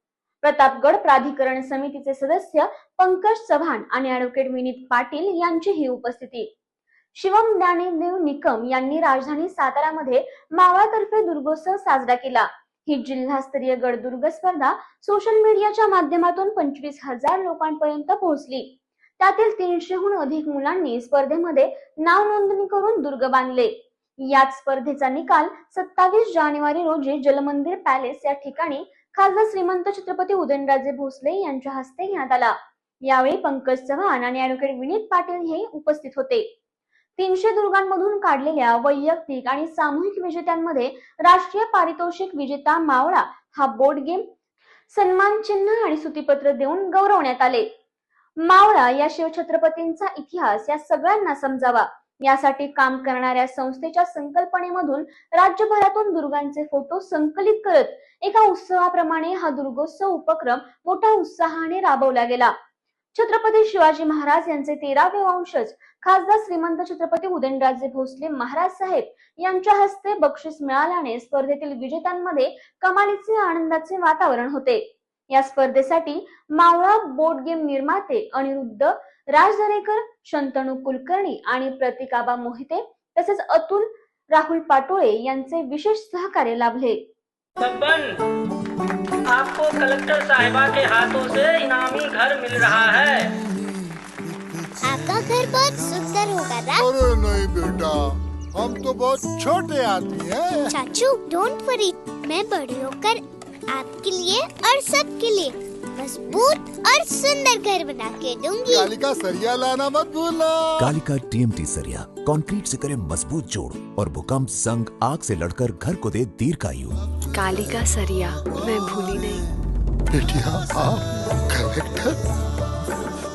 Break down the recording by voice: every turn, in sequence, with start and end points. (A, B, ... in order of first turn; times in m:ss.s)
0:00.4-0:06.5 A
0:07.1-0:36.5 A
0:37.2-0:44.3 A
0:44.9-0:47.7 A
0:48.4-1:02.5 A
1:03.1-1:27.1 A
1:27.6-1:28.2 B
1:29.2-1:33.3 B
1:34.8-1:36.9 C
1:36.8-1:40.7 D
1:40.7-1:48.9 C
1:48.7-1:50.5 D
1:50.8-1:57.0 E
1:57.4-1:59.4 F
2:00.1-2:02.2 D